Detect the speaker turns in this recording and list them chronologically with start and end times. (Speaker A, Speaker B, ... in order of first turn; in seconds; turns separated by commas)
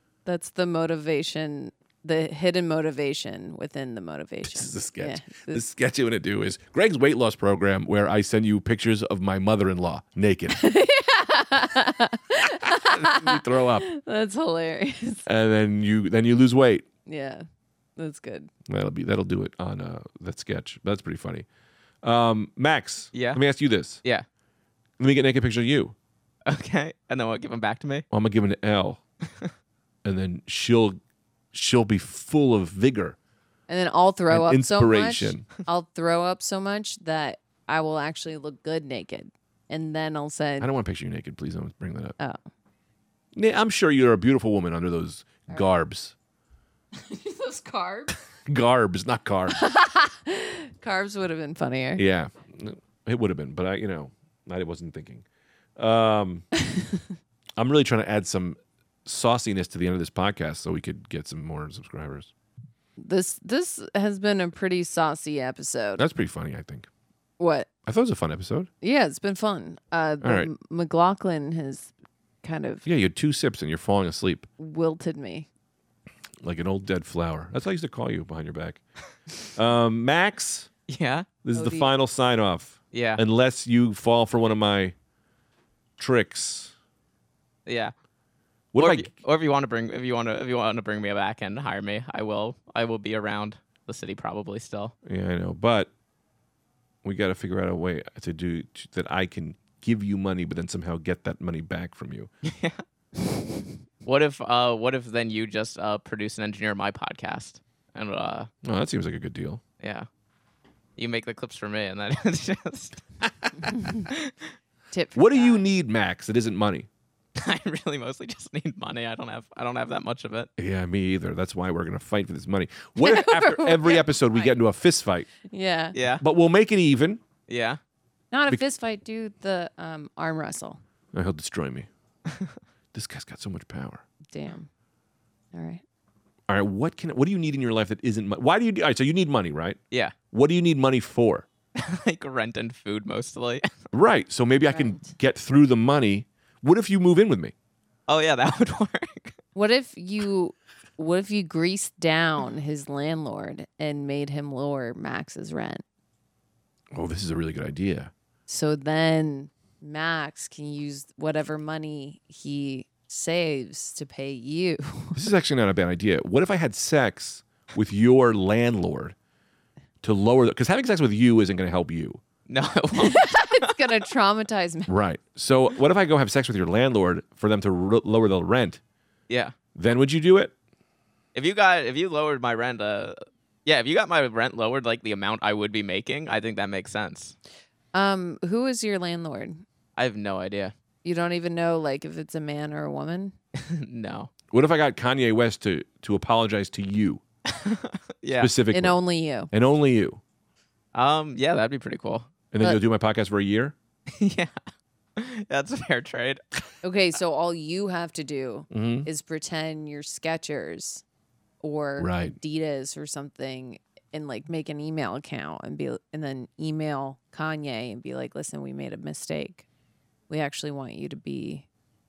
Speaker A: 0.2-5.6, Speaker B: 4.5-10.6, Speaker A: 10.5-15.2, Speaker B: 12.4-13.9, Speaker B: 15.3-16.9, Speaker A: 17.1-17.5, Speaker A: 18.0-18.5, Speaker B: 18.7-21.5, Speaker B: 22.0-24.0, Speaker C: 23.1-23.4, Speaker B: 25.0-25.9, Speaker C: 26.5-28.1, Speaker B: 28.1-29.0, Speaker B: 30.0-31.0, Speaker B: 31.5-33.2, Speaker A: 33.7-40.7, Speaker B: 34.3-35.5, Speaker B: 40.6-42.2, Speaker B: 43.3-46.1, Speaker A: 47.0-48.2, Speaker B: 48.5-49.6, Speaker A: 49.5-52.0, Speaker B: 52.0-55.2, Speaker B: 55.8-56.5, Speaker B: 57.6-62.3, Speaker A: 63.0-66.0, Speaker B: 66.0-66.9, Speaker A: 67.4-67.7, Speaker B: 67.9-68.7, Speaker A: 68.8-71.9, Speaker B: 70.2-70.5, Speaker A: 72.4-72.8, Speaker B: 72.8-74.5, Speaker A: 74.6-75.5, Speaker B: 76.4-78.8, Speaker B: 79.5-80.7, Speaker C: 80.9-81.3, Speaker B: 81.4-84.9, Speaker A: 81.5-81.9, Speaker C: 82.9-83.2, Speaker B: 86.0-86.7, Speaker C: 87.7-87.9, Speaker B: 88.7-89.1, Speaker C: 88.8-94.9, Speaker B: 95.0-95.9, Speaker B: 97.0-102.3, Speaker C: 102.5-102.8, Speaker C: 104.0-108.5, Speaker B: 108.6-109.6, Speaker C: 109.8-110.1, Speaker C: 111.0-113.0, Speaker A: 113.6-114.1, Speaker C: 114.1-114.3, Speaker A: 114.9-115.7, Speaker B: 115.2-116.9, Speaker C: 117.4-120.5, Speaker B: 120.6-125.3, Speaker A: 123.0-124.5, Speaker A: 125.5-126.0, Speaker C: 125.9-126.2, Speaker B: 126.2-127.2, Speaker C: 127.5-127.8, Speaker A: 128.3-130.8, Speaker B: 131.1-131.9, Speaker B: 132.9-134.0, Speaker A: 134.3-134.7, Speaker A: 135.5-135.8, Speaker B: 136.5-139.8, Speaker B: 140.3-141.5, Speaker C: 141.8-143.7, Speaker B: 143.9-147.5, Speaker A: 144.7-145.0, Speaker C: 148.1-149.3, Speaker A: 149.6-155.8, Speaker B: 156.9-158.1, Speaker A: 158.5-165.3, Speaker B: 165.2-169.2, Speaker B: 170.0-172.2, Speaker C: 172.5-173.7, Speaker A: 173.0-174.9, Speaker B: 174.9-178.8, Speaker C: 179.3-179.6, Speaker B: 179.8-180.5, Speaker C: 181.3-187.4, Speaker A: 187.9-189.6, Speaker C: 190.0-190.7, Speaker A: 191.0-193.3, Speaker C: 193.6-194.3, Speaker B: 194.5-197.2, Speaker C: 197.5-198.5, Speaker B: 198.4-199.0, Speaker A: 198.7-199.5, Speaker B: 199.5-200.2, Speaker C: 200.9-202.3, Speaker B: 202.5-203.8, Speaker C: 204.1-204.6, Speaker C: 205.2-206.4, Speaker A: 206.8-211.0, Speaker B: 208.7-209.1, Speaker A: 211.6-219.7, Speaker B: 212.0-212.4, Speaker A: 220.3-221.7